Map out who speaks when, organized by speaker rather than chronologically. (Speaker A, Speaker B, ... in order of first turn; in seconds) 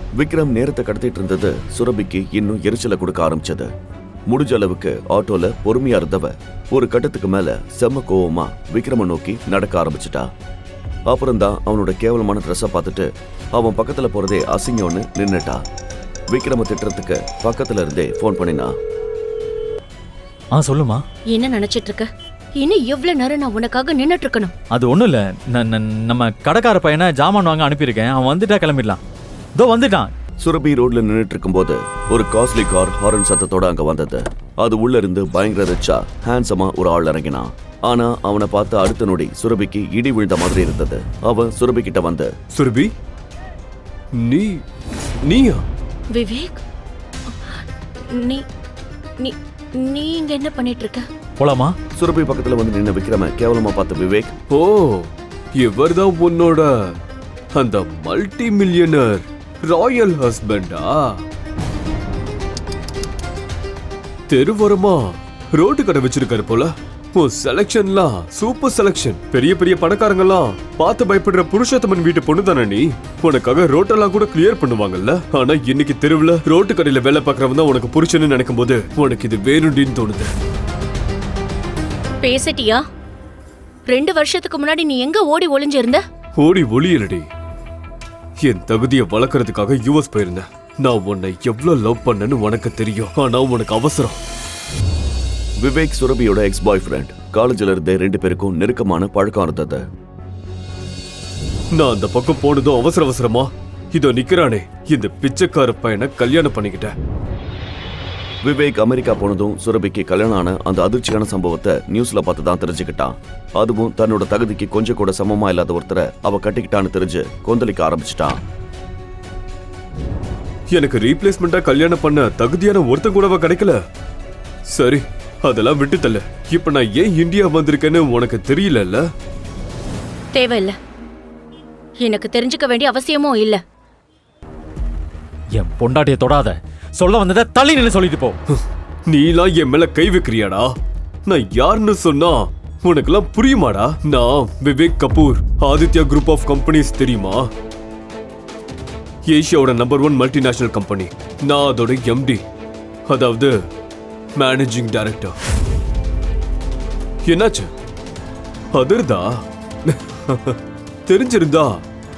Speaker A: 0.2-3.7, 4.3-10.3, 11.1-15.6, 16.3-18.7, 30.4-42.3, 52.0-54.3, 95.6-99.8, 108.4-118.4
Speaker B: 20.6-21.0, 24.7-29.0, 29.6-30.1, 51.4-51.8, 135.6-138.4
Speaker C: 21.3-22.1, 22.6-24.5, 46.1-46.6, 47.3-48.5, 49.2-51.1, 82.2-82.8, 83.9-86.0, 130.3-130.8, 132.0-133.6
Speaker D: 42.5-42.9, 44.1-44.6, 45.2-45.6, 54.5-56.9, 57.5-61.2, 64.3-80.3, 86.4-87.3, 88.4-94.2, 101.7-107.0, 120.7-123.8, 124.7-129.1, 138.5-147.5, 149.3-152.4, 153.1-153.7, 154.3-155.4, 157.2-157.7, 158.7-161.8